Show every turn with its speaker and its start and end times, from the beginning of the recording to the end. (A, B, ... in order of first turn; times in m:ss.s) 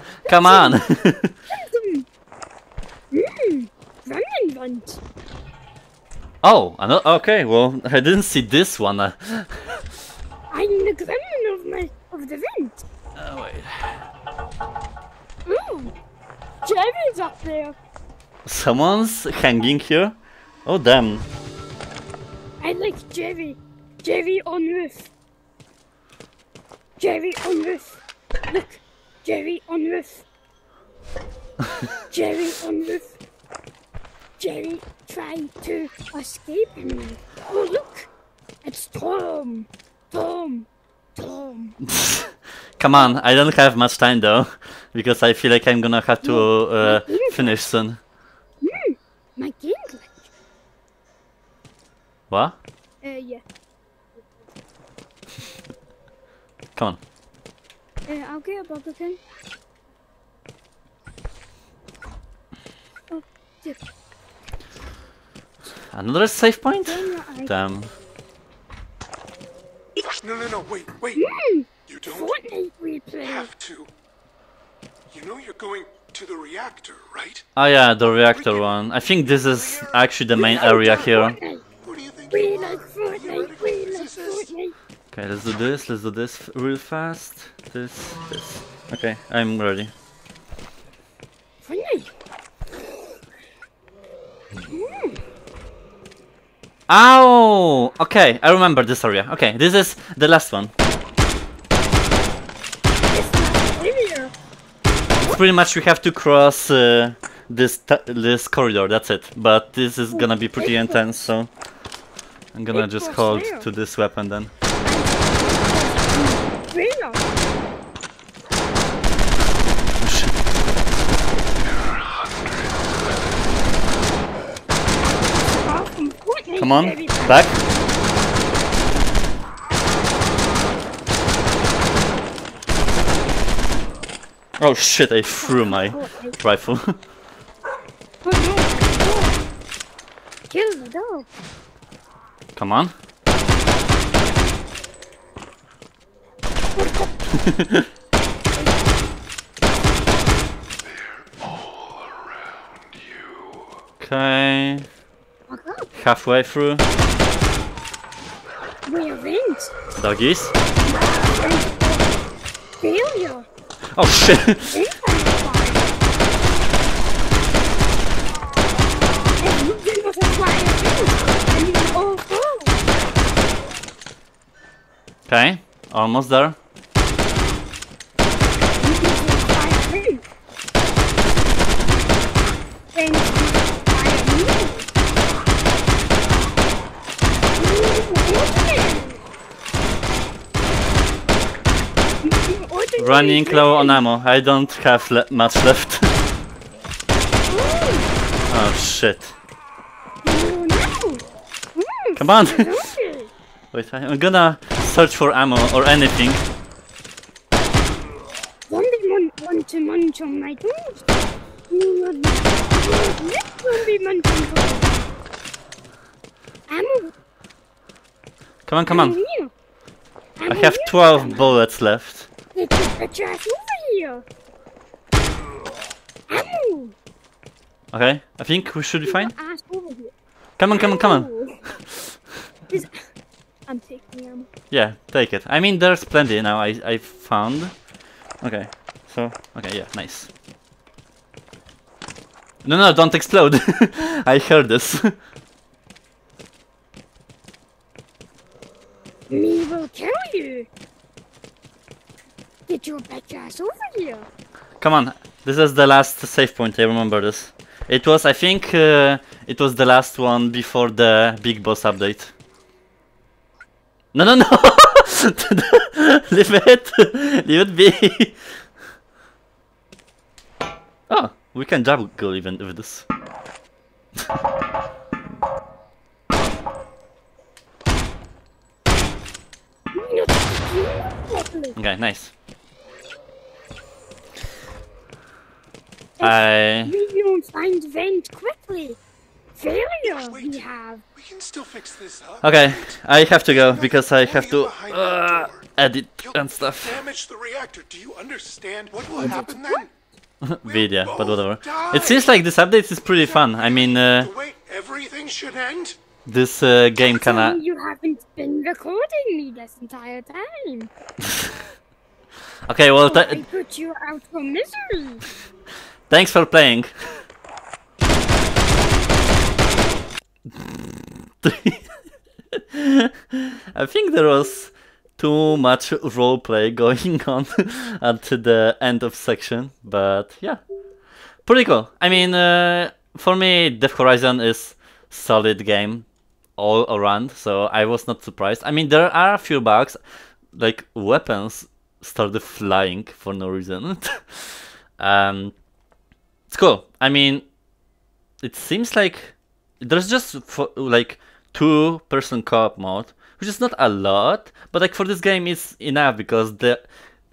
0:00.2-0:00.9 A
0:00.2-0:01.3 B
0:01.5-0:02.1 A
0:03.1-0:05.0 A
0:06.4-0:09.8 B
0:10.5-0:12.8 A
0:13.2-0:14.0 B
0:15.5-0:16.0 A
0:16.6-0:17.8 A
0:18.5-0:21.3 B
0:22.6-0:25.1 A
0:27.0-0:30.2 A
0:32.1-0:33.2 A
0:34.4-0:38.1 A
0:38.6-0:41.8 A
0:41.9-0:48.0 B
0:46.2-0:47.7 A
0:48.6-0:50.3 A
0:52.3-0:52.6 B
0:53.0-0:53.4 A
0:58.1-0:59.2 A
1:03.1-1:03.8 A
1:05.9-1:07.9 B
1:06.8-1:07.5 A
1:10.2-1:11.2 C
1:11.1-1:13.5 A
1:11.9-1:12.3 C
1:13.2-1:13.9 C
1:15.1-1:17.4 C
1:17.6-1:21.4 B
1:18.3-1:18.7 C
1:19.4-1:20.1 C
1:20.3-1:21.6 A
1:21.8-1:24.5 C
1:22.3-1:24.7 A
1:25.1-1:29.9 B
1:31.6-1:32.1 A
1:34.7-1:35.2 A
1:36.9-1:40.7 B
1:43.1-1:44.3 A
1:45.2-1:51.5 B
1:50.1-1:51.3 A
1:52.5-1:54.5 B
1:52.7-1:53.7 A
1:54.8-1:57.2 A
2:00.0-2:00.3 B
2:05.6-2:07.5 A
2:06.6-2:07.6 B
2:14.6-2:17.0 B
2:15.4-2:16.4 A
2:18.2-2:19.4 A
2:20.5-2:21.3 A
2:22.6-2:22.9 B
2:26.8-2:27.1 A
2:27.4-2:27.8 B
2:31.0-2:32.1 C
2:32.9-2:33.5 C
2:34.0-2:34.9 B
2:35.5-2:35.9 A
2:36.0-2:36.9 B
2:38.8-2:39.7 A
2:40.0-2:40.5 B
2:40.9-2:42.2 A
2:42.8-2:43.5 A
2:43.9-2:44.7 B
2:44.7-2:46.0 A
2:49.4-2:52.8 A
2:55.3-2:56.6 B
2:58.8-3:00.2 A
3:02.9-3:04.9 A
3:07.6-3:09.2 A
3:12.2-3:14.0 A
3:13.0-3:16.2 B
3:17.5-3:18.1 A
3:18.5-3:19.4 B
3:20.2-3:23.3 A
3:22.2-3:22.8 B
3:23.7-3:26.4 B
3:28.7-3:31.0 A
3:31.7-3:35.0 A
3:36.7-3:37.1 A
3:38.7-3:39.2 B
3:38.9-3:39.5 A
3:40.4-3:41.6 A
3:40.5-3:42.3 B
3:42.6-3:44.2 A
3:46.3-3:47.0 A
3:47.9-3:49.3 B
3:49.1-3:50.1 A
3:50.6-3:51.3 B
3:50.7-3:51.7 A
3:52.7-3:53.1 A
3:53.7-3:54.5 A
3:54.7-3:57.8 B
3:58.4-4:00.3 B
4:02.6-4:05.1 B
4:09.3-4:10.7 A
4:12.7-4:14.3 A
4:14.8-4:22.3 B
4:24.1-4:28.4 B
4:31.1-4:33.1 B
4:39.9-4:41.8 A
4:41.8-4:42.3 B
4:46.2-4:49.0 A
4:46.2-4:46.9 B
4:49.6-4:51.0 A
4:50.3-4:55.7 C
4:52.4-4:57.0 B
4:56.2-4:59.9 C
4:59.1-4:59.8 A
5:00.4-5:04.3 B
5:00.6-5:02.4 C
5:03.2-5:06.0 C
5:06.3-5:07.6 B
5:07.0-5:10.9 A
5:12.7-5:13.4 B
5:13.0-5:15.3 A
5:16.1-5:16.9 B
5:20.5-5:21.8 B
5:22.5-5:30.6 B
5:31.4-5:40.0 B
5:40.5-5:45.6 B
5:46.5-5:47.5 B
5:48.4-5:56.9 B